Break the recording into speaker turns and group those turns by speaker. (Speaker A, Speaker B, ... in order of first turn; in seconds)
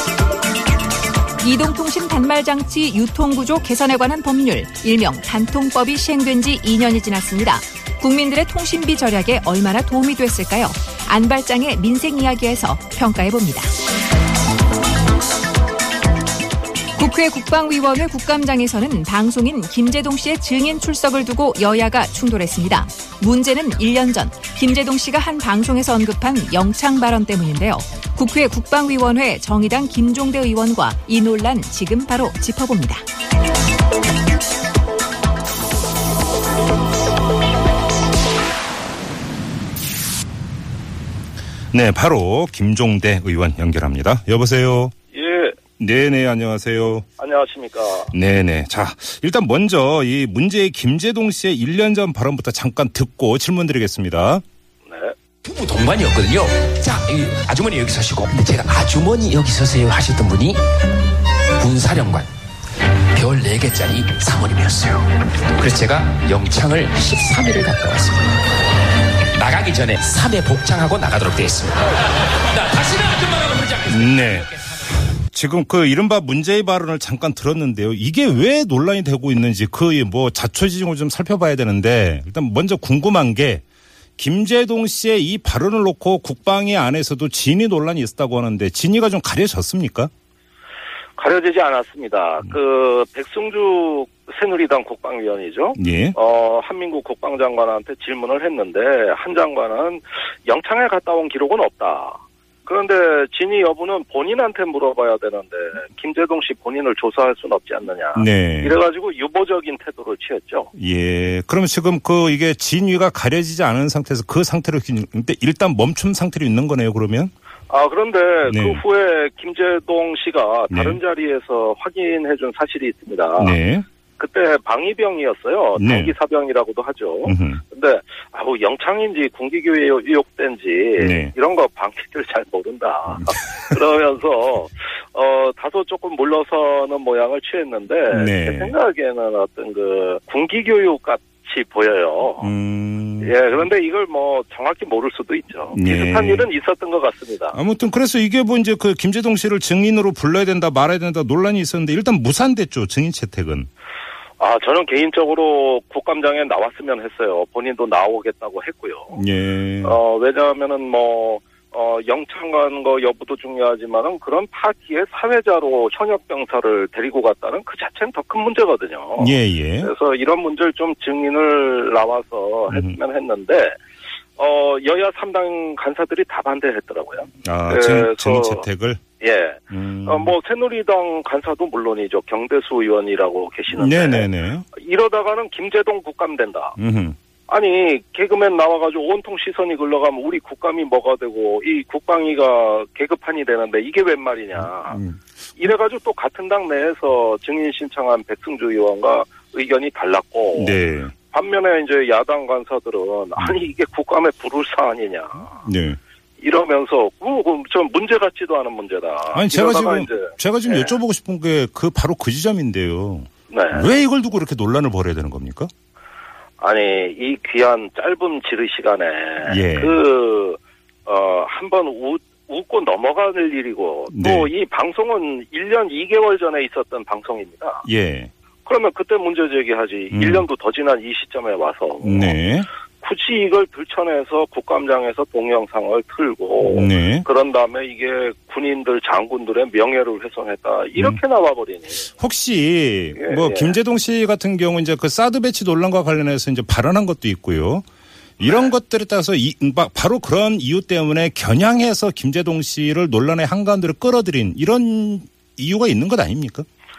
Speaker A: 1.4-13.7, 16.9-33.0
Speaker B: 41.7-44.9, 45.8-47.1, 48.1-54.4, 73.9-74.5, 75.3-83.6, 84.2-90.1, 95.8-96.2, 108.1-108.8, 110.7-117.3, 118.4-118.8, 120.7-121.0, 123.4-123.8, 125.8-126.1, 127.2-127.6, 131.0-131.3, 138.1-138.7, 142.4-143.3, 145.7-146.5, 147.5-153.7, 159.1-160.0, 169.2-169.9, 172.7-173.0, 177.4-179.0, 179.7-180.3, 183.7-184.7, 186.8-187.2, 194.6-195.2, 200.5-201.1, 205.6-206.0, 209.3-215.7, 219.4-220.0, 224.1-224.5, 227.8-228.3, 230.1-230.4, 232.0-232.7, 236.7-237.2, 242.2-247.8, 248.4-256.6
Speaker C: 45.1-45.6, 47.2-48.1, 54.9-55.1, 91.2-110.7, 117.7-123.5, 124.2-142.5, 143.2-147.6, 154.4-159.2, 159.8-173.7, 174.4-178.6, 179.2-186.7, 187.5-195.0, 195.6-200.7, 201.3-205.6, 206.4-210.9, 213.5-213.8, 216.6-227.8, 228.6-232.3, 233.0-242.1, 243.2-243.8, 248.4-248.7
Speaker D: 55.4-60.6, 61.6-62.3, 63.1-68.5, 69.3-75.0